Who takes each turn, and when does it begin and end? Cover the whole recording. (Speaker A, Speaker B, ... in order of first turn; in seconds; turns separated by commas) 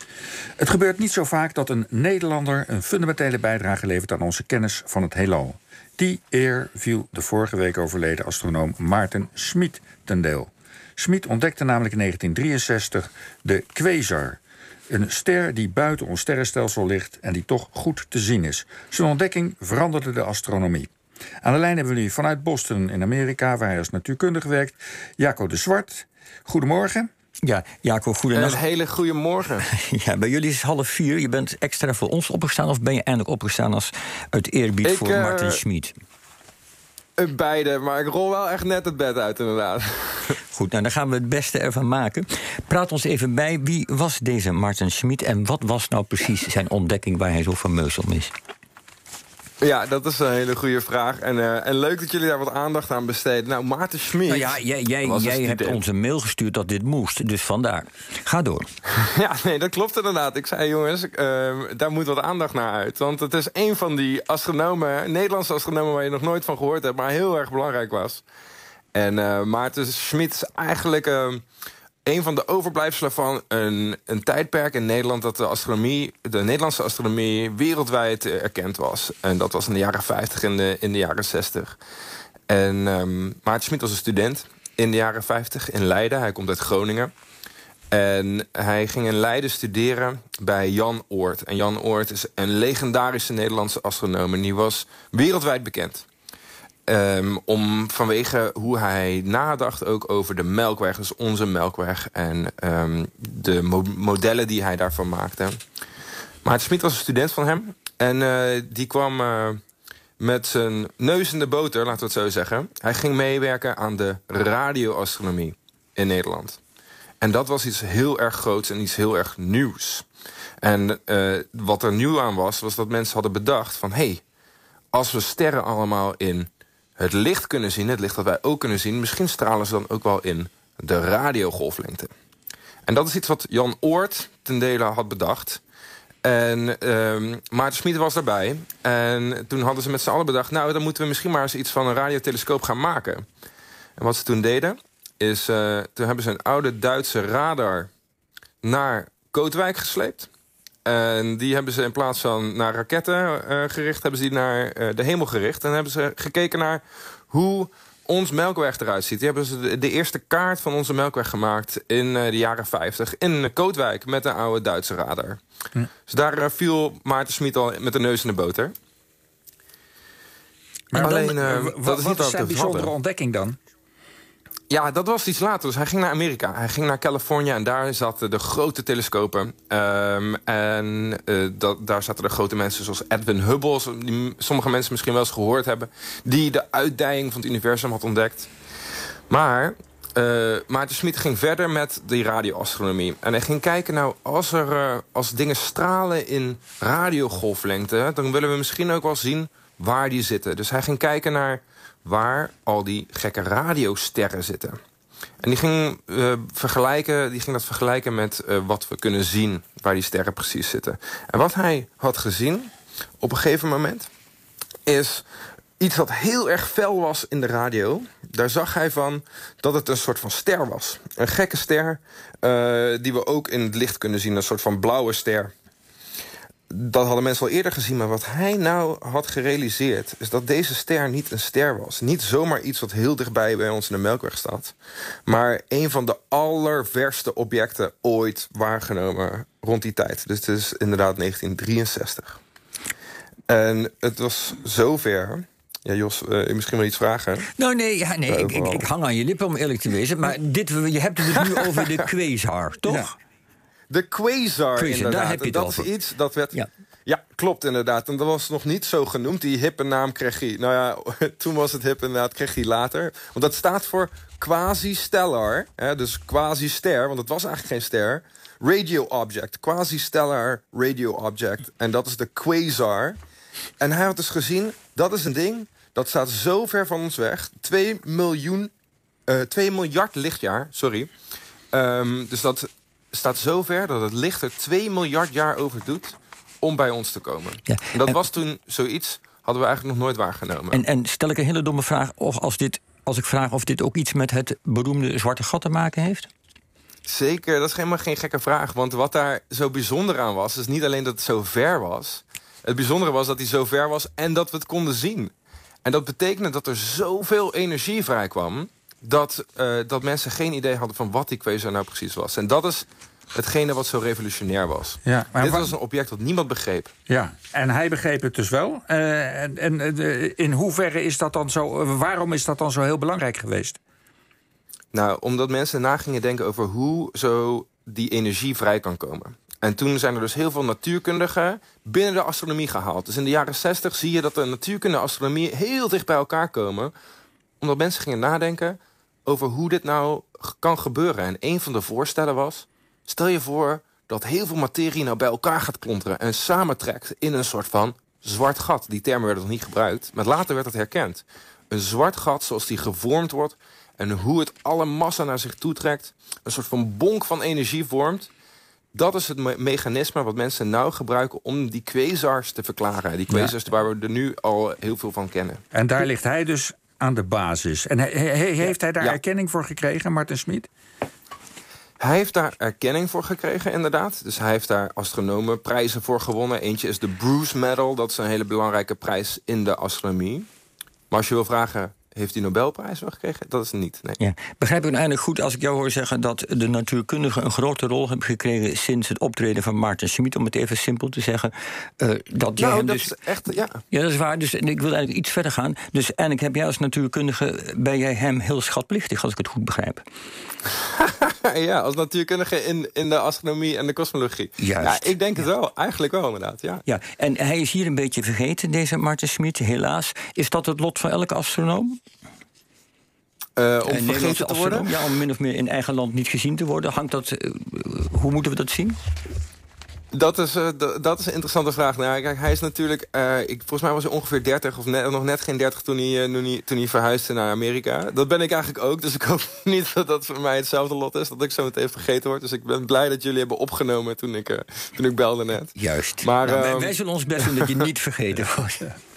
Speaker A: 0.6-20.9, Speaker A: 21.4-27.1, Speaker B: 27.4-28.6, Speaker C: 28.3-29.7, Speaker B: 29.7-36.0, Speaker C: 34.8-35.6, Speaker C: 37.2-40.4, Speaker B: 40.5-48.3, Speaker C: 49.6-55.8, Speaker B: 54.3-58.7, Speaker C: 58.9-68.2, Speaker C: 68.9-71.4, Speaker C: 72.1-81.8, Speaker C: 82.5-87.1, Speaker C: 87.9-96.1, Speaker C: 96.9-105.6, Speaker C: 106.4-109.6, Speaker C: 110.2-116.6, Speaker C: 117.2-120.1, Speaker C: 120.6-124.2, Speaker C: 124.9-132.1, Speaker C: 132.9-135.6, Speaker C: 136.2-143.2, Speaker C: 144.0-147.9, Speaker C: 148.6-150.3, Speaker C: 150.8-165.4, Speaker C: 166.1-168.7, Speaker A: 170.9-173.6, Speaker C: 170.9-172.9, Speaker C: 174.7-188.5, Speaker C: 189.3-204.8, Speaker C: 205.4-214.1, Speaker C: 214.9-215.3, Speaker C: 215.8-225.5, Speaker C: 226.7-234.8, Speaker C: 235.3-242.4, Speaker C: 243.5-247.5, Speaker B: 247.6-253.1, Speaker C: 248.3-248.9, Speaker C: 251.2-252.0, Speaker C: 253.9-273.2, Speaker B: 254.8-255.9, Speaker C: 273.8-278.7, Speaker C: 279.3-281.1, Speaker C: 281.7-290.8, Speaker B: 287.7-288.2, Speaker B: 290.7-296.3, Speaker C: 297.1-305.3, Speaker C: 305.9-316.9, Speaker A: 315.1-315.7, Speaker A: 317.1-323.8, Speaker C: 324.9-336.9, Speaker C: 337.6-358.3, Speaker C: 358.9-365.6, Speaker A: 365.7-370.7, Speaker C: 368.6-369.2, Speaker C: 372.0-380.5, Speaker C: 381.1-384.2, Speaker B: 384.2-393.1, Speaker C: 392.6-393.8, Speaker B: 393.9-400.0, Speaker C: 401.0-406.9, Speaker B: 404.6-405.1, Speaker B: 406.9-412.0, Speaker C: 413.6-414.9, Speaker B: 413.9-419.0, Speaker C: 420.1-437.9, Speaker B: 435.8-438.9